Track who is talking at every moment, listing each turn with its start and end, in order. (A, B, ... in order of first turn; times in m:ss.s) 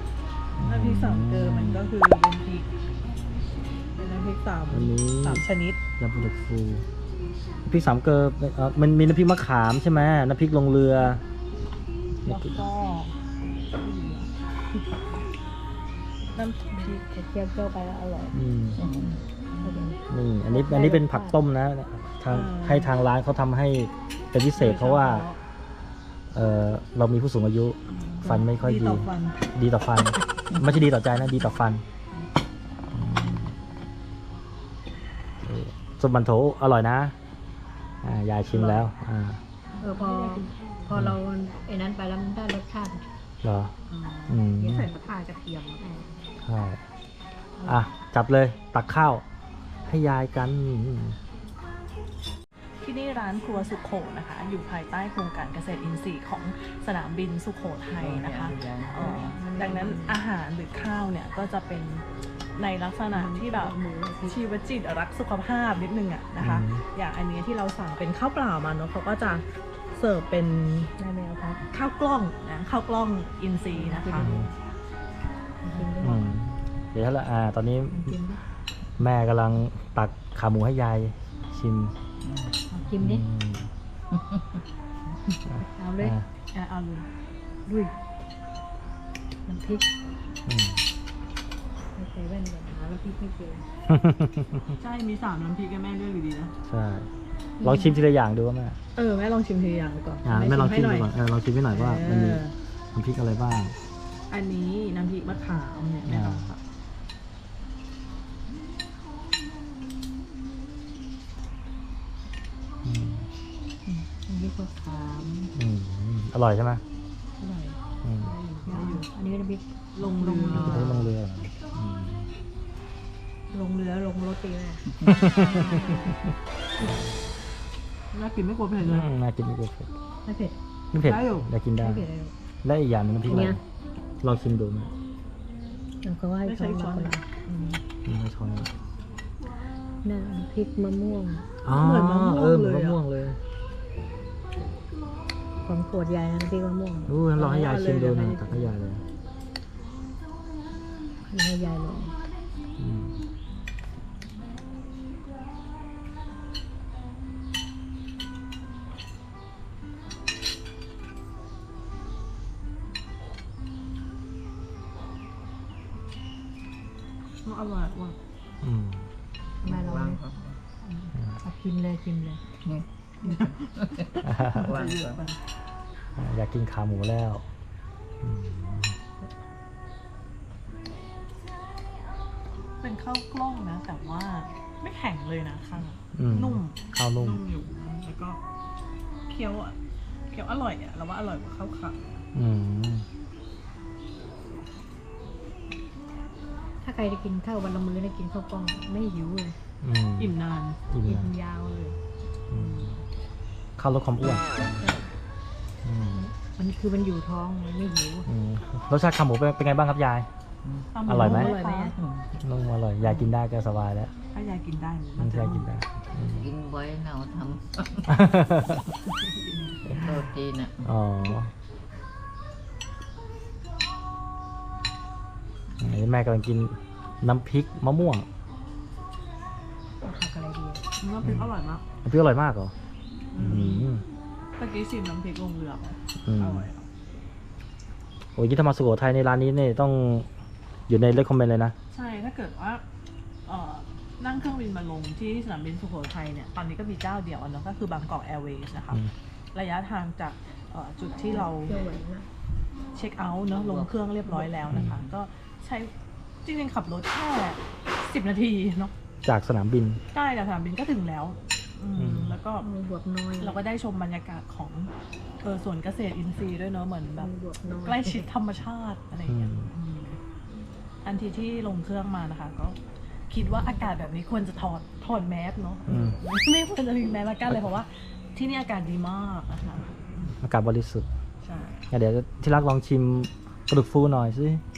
0:00.6-0:01.9 A
0:00.6-0:02.7 B
0:04.0-0:05.8 B
0:04.7-0:05.4 A
0:06.0-0:06.8 A
0:07.6-0:11.2 A
0:12.2-0:12.6 A
0:12.2-0:13.2 B
0:13.7-0:14.3 B
0:16.3-0:17.0 B
0:16.7-0:21.4 C
0:18.3-0:18.8 A
0:18.8-0:19.1 D
0:19.0-0:19.9 B
0:20.1-0:25.3 A
0:22.3-0:23.0 B
0:24.6-0:25.4 B
0:26.3-0:31.8 A
0:27.9-0:29.4 B
0:32.9-0:33.5 A
0:33.1-0:33.5 B
0:35.4-0:37.2 A
0:38.0-0:39.4 A
0:38.5-0:38.9 B
0:39.8-0:40.9 B
0:39.8-0:43.0 C
0:43.4-0:43.7 A
0:43.9-0:45.8 B
0:44.3-0:44.9 A
0:44.6-0:45.0 C
0:45.7-0:46.2 C
0:46.4-0:46.8 A
0:47.6-0:49.2 A
0:49.8-0:51.2 A
0:52.8-1:10.9 B
0:58.0-0:59.4 D
0:59.0-1:00.2 C
1:03.1-1:04.4 C
1:06.4-1:06.8 A
1:11.0-1:11.6 C
1:11.7-1:14.4 B
1:13.7-1:14.5 C
1:14.2-1:14.5 A
1:15.6-1:16.4 C
1:16.0-1:18.2 A
1:17.9-1:18.4 C
1:19.0-1:21.9 A
1:22.2-1:22.5 D
1:22.7-1:23.2 C
1:23.0-1:23.7 A
1:24.1-1:24.4 D
1:25.5-1:26.2 C
1:25.6-1:26.2 A
1:26.5-1:27.1 B
1:27.6-1:27.9 C
1:29.4-1:29.9 C
1:30.5-1:30.8 A
1:31.9-1:33.6 C
1:33.9-1:34.7 A
1:34.8-1:36.5 B
1:36.6-1:37.1 A
1:37.6-1:38.0 C
1:37.6-1:38.8 A
1:38.9-1:41.1 B
1:40.2-1:43.8 A
1:41.7-1:42.5 B
1:44.3-1:46.6 B
1:46.0-1:46.5 A
1:52.8-1:53.3 A
1:53.8-1:55.5 C
1:55.5-1:56.8 A
1:57.4-1:57.8 B
1:58.0-1:58.3 A
1:58.3-2:01.1 C
1:58.4-1:59.1 B
1:59.9-2:01.1 B
2:00.5-2:02.3 A
2:03.5-2:06.2 C
2:05.0-2:06.2 A
2:08.1-2:09.1 B
2:08.8-2:09.9 A
2:10.2-2:10.6 C
2:10.9-2:12.1 A
2:11.0-2:11.5 B
2:11.8-2:12.3 C
2:12.6-2:13.6 A
2:13.2-2:13.6 C
2:14.2-2:14.9 A
2:16.0-2:17.3 C
2:16.4-2:17.8 B
2:18.0-2:18.7 A
2:20.0-2:21.5 C
2:21.6-2:23.4 A
2:21.6-2:23.0 B
2:25.6-2:27.1 C
2:27.1-2:29.0 A
2:27.4-2:28.7 B
2:31.2-2:32.2 C
2:32.8-2:33.2 A
2:47.4-2:48.2 B
2:48.6-2:49.1 A
2:49.6-2:50.4 C
2:49.6-2:50.6 D
2:50.8-2:51.1 B
2:51.4-2:52.4 C
2:52.6-2:55.2 D
2:53.2-2:55.4 B
2:54.2-2:54.7 A
2:56.2-2:57.4 A
2:58.2-2:59.0 A
3:02.8-3:08.4 B
3:06.1-3:07.4 A
3:09.3-3:09.8 B
3:10.3-3:12.0 B
3:12.3-3:13.1 A
3:16.8-3:19.6 C
3:19.8-3:20.3 A
3:20.2-3:20.8 B
3:20.9-3:21.3 A
3:21.0-3:22.0 C
3:22.5-3:23.0 A
3:22.5-3:23.0 B
3:23.8-3:24.7 A
3:24.8-3:25.1 C
3:25.8-3:26.3 A
3:26.1-3:28.3 C
3:28.2-3:30.3 A
3:30.6-3:30.9 D
3:30.9-3:32.0 B
3:31.0-3:31.5 A
3:31.1-3:31.9 C
3:31.9-3:32.3 D
3:32.4-3:34.1 A
3:33.0-3:33.3 B
3:34.3-3:35.7 B
3:35.2-3:36.5 A
3:36.4-3:38.2 D
3:38.1-3:38.8 A
3:39.8-3:40.9 D
3:40.8-3:41.5 A
3:45.8-3:48.3 A
3:50.0-3:50.8 C
3:51.0-3:51.8 B
3:51.2-3:51.5 A
3:52.0-3:52.7 A
3:53.3-3:53.9 B
3:53.4-3:54.0 A
3:54.6-3:56.9 B
3:56.2-3:56.7 A
3:58.4-4:00.3 A
4:00.9-4:01.7 A
4:01.9-4:02.8 B
4:03.4-4:09.0 B
4:09.5-4:11.8 B
4:11.3-4:12.3 C
4:12.9-4:15.9 B
4:13.5-4:14.0 D
4:14.7-4:15.0 A
4:16.4-4:18.9 B
4:19.2-4:20.0 A
4:20.1-4:22.7 B
4:22.0-4:22.4 A
4:22.6-4:23.6 C
4:23.4-4:27.3 B
4:27.2-4:28.3 C
4:27.8-4:30.2 B
4:29.3-4:29.7 A
4:31.0-4:32.8 B
4:33.3-4:40.4 B
4:33.4-4:34.5 C
4:35.9-4:36.2 A
4:40.4-4:41.1 A
4:41.4-4:41.8 B
4:41.9-4:44.6 A